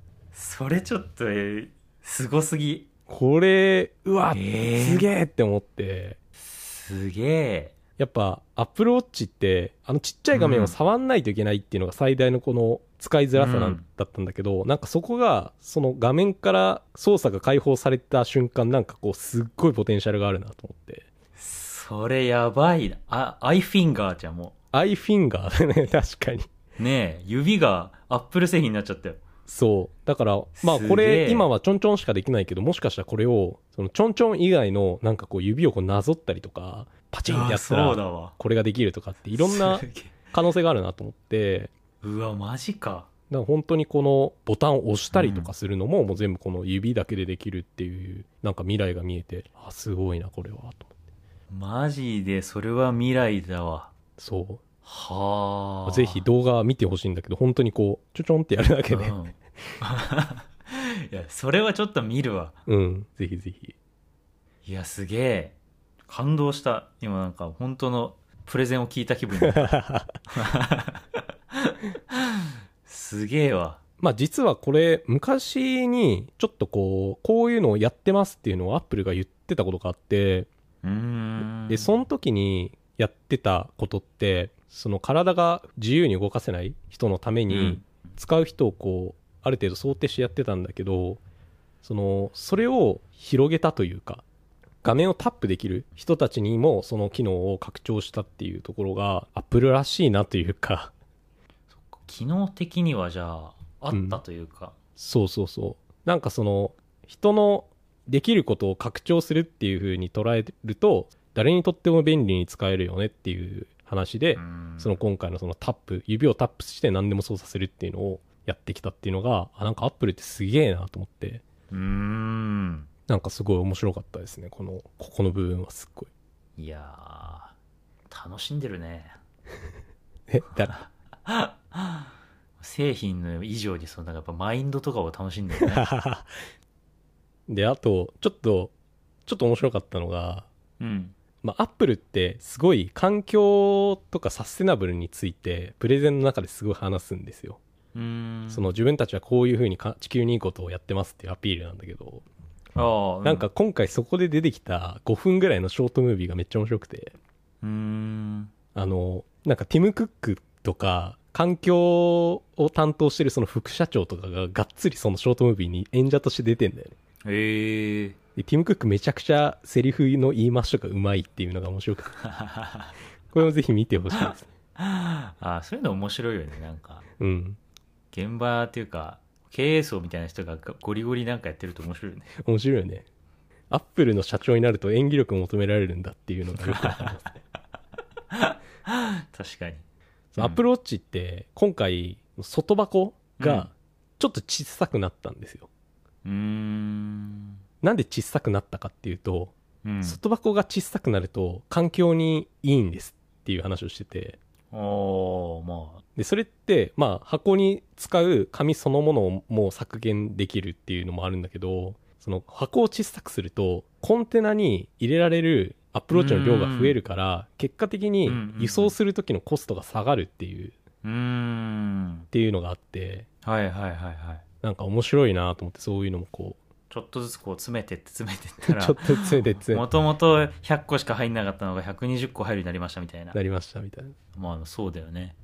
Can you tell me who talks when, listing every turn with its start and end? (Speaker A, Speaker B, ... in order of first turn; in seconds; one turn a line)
Speaker A: 0.3-2.9
Speaker B: 3.1-6.2
Speaker A: 4.3-5.1
Speaker A: 6.4-7.8
Speaker B: 8.0-21.1
Speaker A: 10.3-10.8
Speaker A: 13.3-13.8
Speaker A: 21.4-24.6
Speaker B: 24.7-26.5
Speaker A: 26.8-29.2
Speaker B: 29.5-41.7
Speaker A: 30.6-31.5
Speaker A: 37.3-38.4
Speaker A: 39.4-40.3
Speaker A: 42.0-43.1
Speaker B: 43.3-50.9
Speaker A: 45.1-45.5
Speaker A: 51.5-53.9
Speaker B: 54.2-54.6
Speaker A: 54.9-56.2
Speaker B: 55.9-59.2
Speaker A: 58.9-62.5
Speaker B: 62.7-63.8
Speaker A: 64.7-65.5
Speaker A: 66.1-69.7
Speaker B: 69.5-70.2
Speaker A: 70.3-71.0
Speaker A: 71.6-73.8
Speaker B: 74.0-80.5
Speaker A: 80.8-81.9
Speaker B: 81.4-91.2
Speaker A: 87.5-87.8
Speaker B: 91.8-94.2
Speaker B: 94.8-100.9
Speaker A: 101.7-104.8
Speaker B: 103.9-104.2
Speaker B: 105.0-121.4
Speaker A: 114.4-115.0
Speaker A: 121.7-122.9
Speaker B: 123.1-126.1
Speaker A: 126.6-127.5
Speaker A: 128.1-129.2
Speaker B: 130.3-130.7
Speaker A: 130.7-132.1
Speaker A: 132.6-135.9
Speaker B: 135.6-136.3
Speaker B: 137.5-138.7
Speaker B: 139.3-140.5
Speaker A: 140.8-141.2
Speaker B: 141.4-147.6
Speaker A: 147.9-148.7
Speaker B: 148.5-152.2
Speaker A: 152.8-153.5
Speaker B: 153.2-157.2
Speaker A: 157.6-158.5
Speaker B: 158.8-166.9
Speaker A: 167.3-168.2
Speaker B: 168.4-172.2
Speaker A: 172.3-172.9
Speaker B: 173.3-174.5
Speaker A: 174.8-177.0
Speaker B: 177.2-177.6
Speaker A: 178.1-182.3
Speaker B: 182.4-183.1
Speaker B: 183.7-187.3
Speaker A: 186.8-187.1
Speaker A: 188.3-189.8
Speaker B: 190.3-195.7
Speaker A: 193.4-193.7
Speaker A: 196.2-197.6
Speaker B: 197.8-204.4
Speaker A: 199.8-200.2
Speaker A: 204.7-206.0
Speaker B: 206.2-220.8
Speaker A: 216.1-217.0
Speaker A: 218.2-218.9
Speaker A: 221.0-222.3
Speaker B: 222.3-223.3
Speaker A: 223.4-224.4
Speaker B: 224.6-226.6
Speaker A: 226.9-233.4
Speaker B: 228.6-229.9
Speaker B: 233.3-234.2
Speaker A: 234.3-235.4